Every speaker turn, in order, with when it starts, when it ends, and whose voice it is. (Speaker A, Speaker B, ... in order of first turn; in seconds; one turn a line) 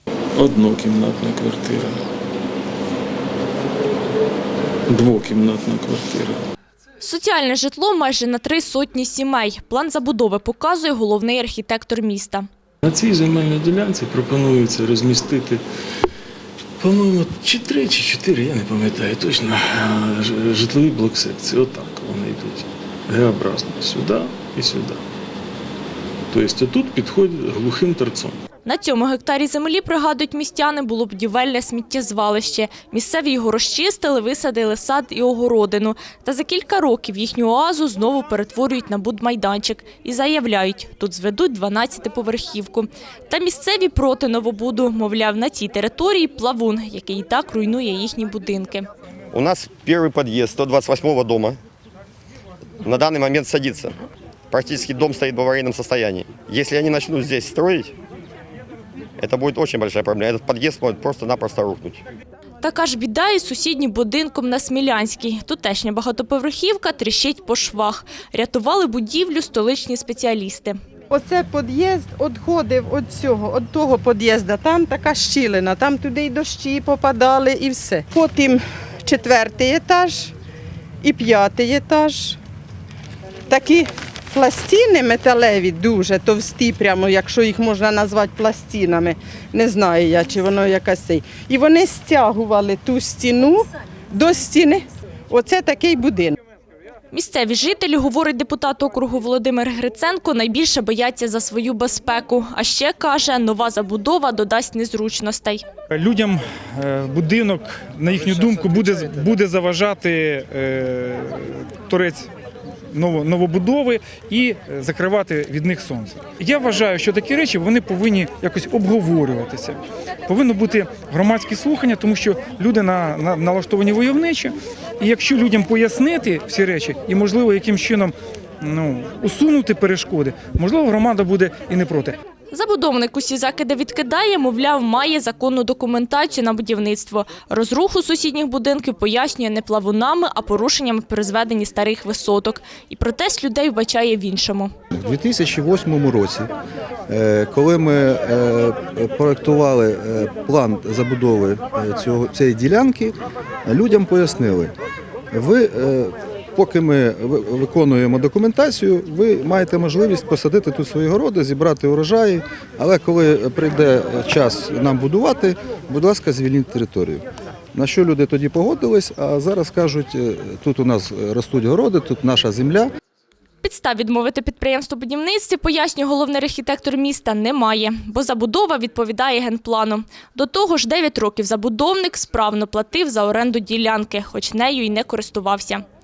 Speaker A: 0.4-2.0
Speaker A: 4.9-6.4
Speaker B: 7.0-12.5
Speaker A: 12.8-15.6
Speaker A: 16.8-25.0
Speaker A: 26.3-28.4
Speaker B: 28.6-48.9
Speaker C: 49.3-51.6
Speaker C: 52.8-57.9
Speaker C: 59.2-62.0
Speaker B: 62.6-70.8
Speaker D: 71.1-80.3
Speaker D: 81.0-82.4
Speaker D: 83.5-96.4
Speaker B: 97.1-105.6
Speaker E: 105.9-112.3
Speaker E: 112.9-132.2
Speaker B: 132.5-144.7
Speaker F: 144.9-146.5
Speaker F: 147.1-154.7
Speaker F: 155.3-167.2
Speaker F: 167.8-172.9
Speaker B: 173.6-185.8